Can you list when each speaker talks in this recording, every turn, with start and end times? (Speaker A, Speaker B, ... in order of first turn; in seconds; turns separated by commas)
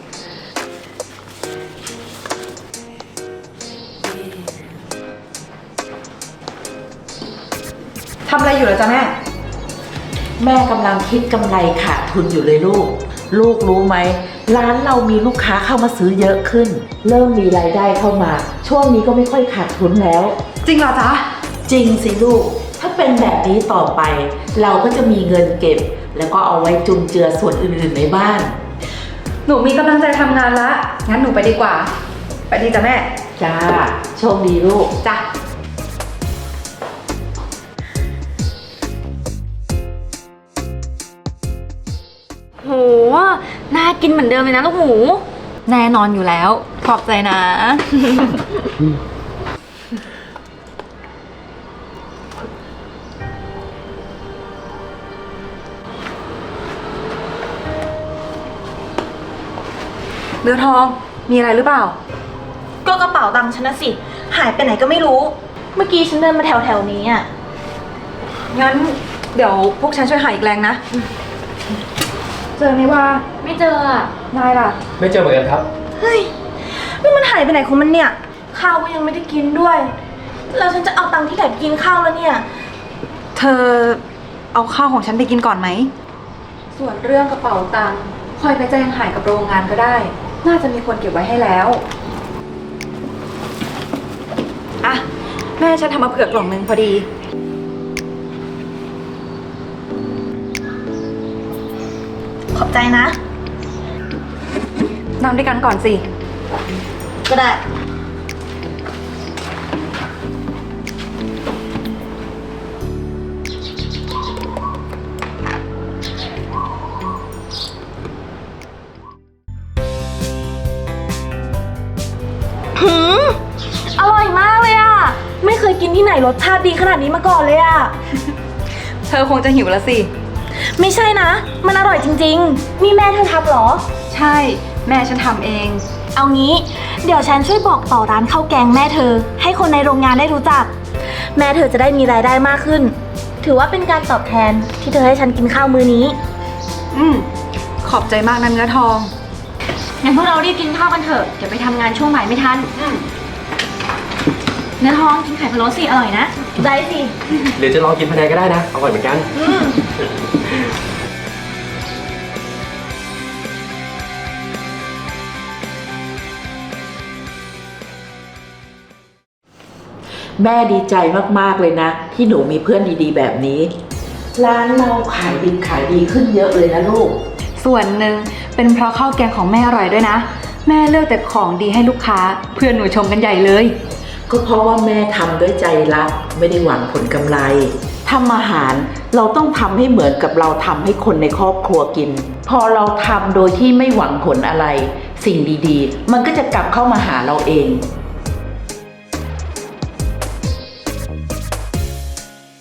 Speaker A: 8.2-9.1, Speaker B: 10.4-20.4, Speaker A: 20.6-21.3, Speaker B: 21.7-28.5, Speaker A: 29.4-31.9, Speaker A: 32.5-33.1, Speaker B: 33.4-34.9, Speaker C: 42.6-45.2, Speaker A: 45.6-48.4, Speaker A: 60.4-62.0, Speaker D: 62.8-67.3, Speaker A: 68.5-70.8, Speaker A: 72.5-73.2, Speaker C: 73.4-74.1, Speaker A: 74.3-74.8, Speaker E: 75.0-75.6, Speaker D: 76.0-76.3, Speaker D: 76.8-79.9, Speaker D: 80.5-82.4, Speaker A: 83.3-84.0, Speaker A: 84.5-85.9, Speaker A: 86.7-91.8, Speaker A: 95.6-97.0, Speaker D: 102.5-103.2, Speaker A: 105.2-106.0, Speaker D: 107.3-107.6, Speaker D: 122.7-127.9, Speaker A: 129.1-130.1, Speaker D: 130.8-133.8, Speaker A: 134.1-135.8, Speaker D: 136.1-140.7, Speaker D: 141.3-146.2, Speaker A: 146.9-147.3, Speaker A: 147.8-149.1, Speaker C: 150.0-152.7, Speaker A: 152.8-153.0, Speaker C: 154.8-156.3, Speaker D: 156.6-157.1, Speaker E: 157.6-159.3, Speaker D: 159.4-159.7, Speaker B: 170.4-173.7, Speaker B: 174.3-177.2, Speaker A: 177.6-183.7, Speaker B: 184.3-197.8